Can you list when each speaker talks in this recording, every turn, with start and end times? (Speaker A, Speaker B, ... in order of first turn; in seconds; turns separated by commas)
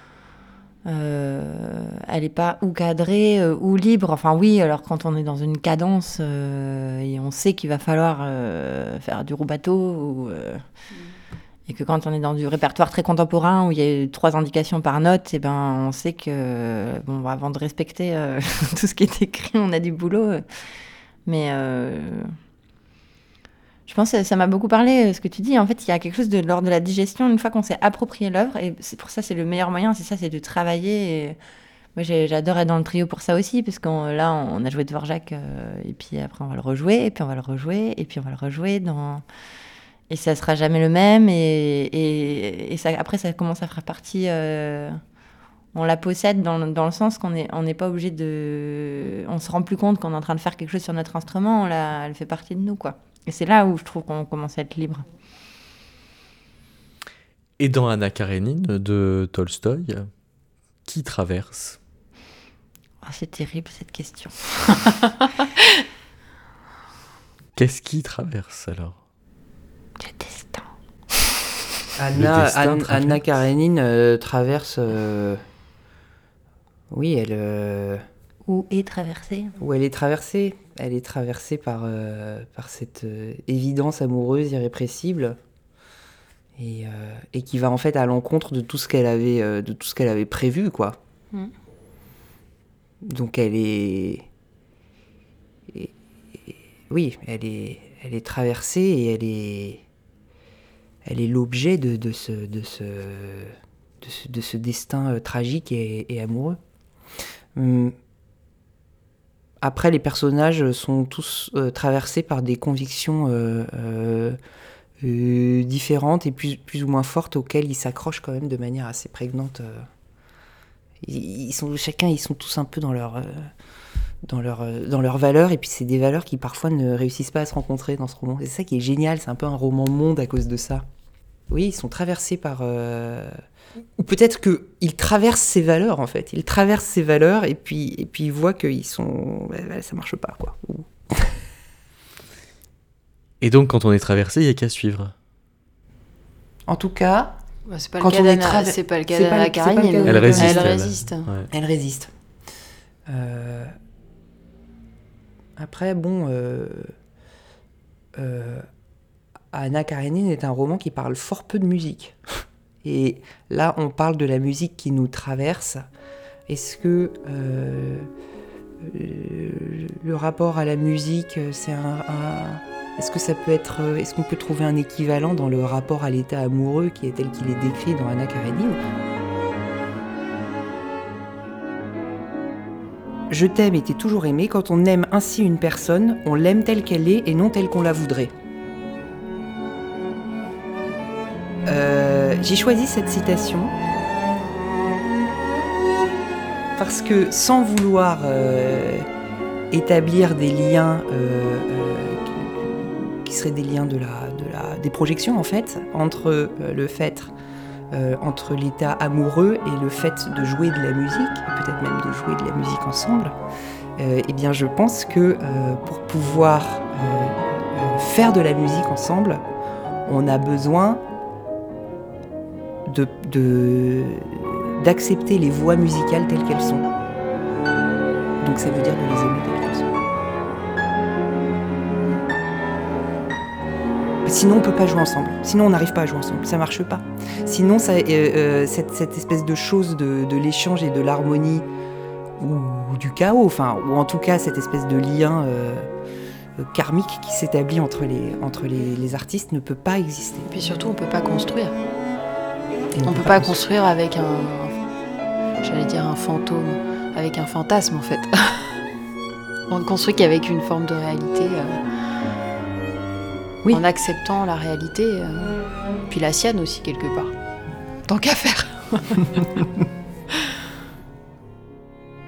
Speaker A: 0.8-10.6, Speaker A: 11.7-20.4, Speaker A: 21.2-22.3, Speaker A: 23.9-31.4, Speaker A: 31.9-39.2, Speaker A: 40.1-45.0, Speaker A: 45.7-55.0, Speaker B: 57.6-60.1, Speaker B: 60.8-61.8, Speaker A: 63.0-64.8, Speaker B: 67.5-69.0, Speaker A: 70.0-71.3, Speaker C: 72.0-75.4, Speaker B: 72.1-73.2, Speaker C: 76.9-78.0, Speaker A: 78.4-79.5, Speaker C: 79.6-85.4, Speaker C: 86.5-91.0, Speaker C: 93.0-94.3, Speaker C: 95.7-99.8, Speaker C: 101.0-106.6, Speaker C: 107.5-107.9, Speaker C: 109.6-114.4, Speaker C: 115.0-119.9, Speaker C: 121.0-123.5, Speaker C: 124.2-130.8, Speaker C: 131.5-133.3, Speaker C: 134.0-141.4, Speaker B: 143.4-145.1, Speaker C: 146.7-147.4, Speaker D: 147.7-151.3, Speaker C: 148.0-150.7, Speaker B: 150.1-151.5, Speaker C: 151.5-152.1, Speaker C: 153.1-153.7, Speaker C: 155.6-156.9, Speaker C: 158.2-158.6, Speaker C: 159.5-165.8, Speaker C: 166.5-168.1, Speaker C: 168.8-178.8, Speaker C: 183.3-188.3, Speaker C: 191.7-193.7, Speaker C: 196.8-199.1, Speaker C: 199.7-207.3, Speaker C: 207.9-213.3, Speaker C: 214.0-219.4, Speaker C: 220.1-221.0, Speaker C: 222.8-226.9, Speaker C: 228.4-230.0, Speaker C: 234.2-241.7, Speaker C: 242.4-245.9, Speaker C: 246.6-250.8, Speaker D: 250.5-251.7, Speaker C: 252.9-253.6, Speaker D: 253.0-254.8, Speaker D: 255.6-258.7, Speaker D: 259.7-261.8, Speaker D: 263.7-267.3, Speaker D: 268.1-269.7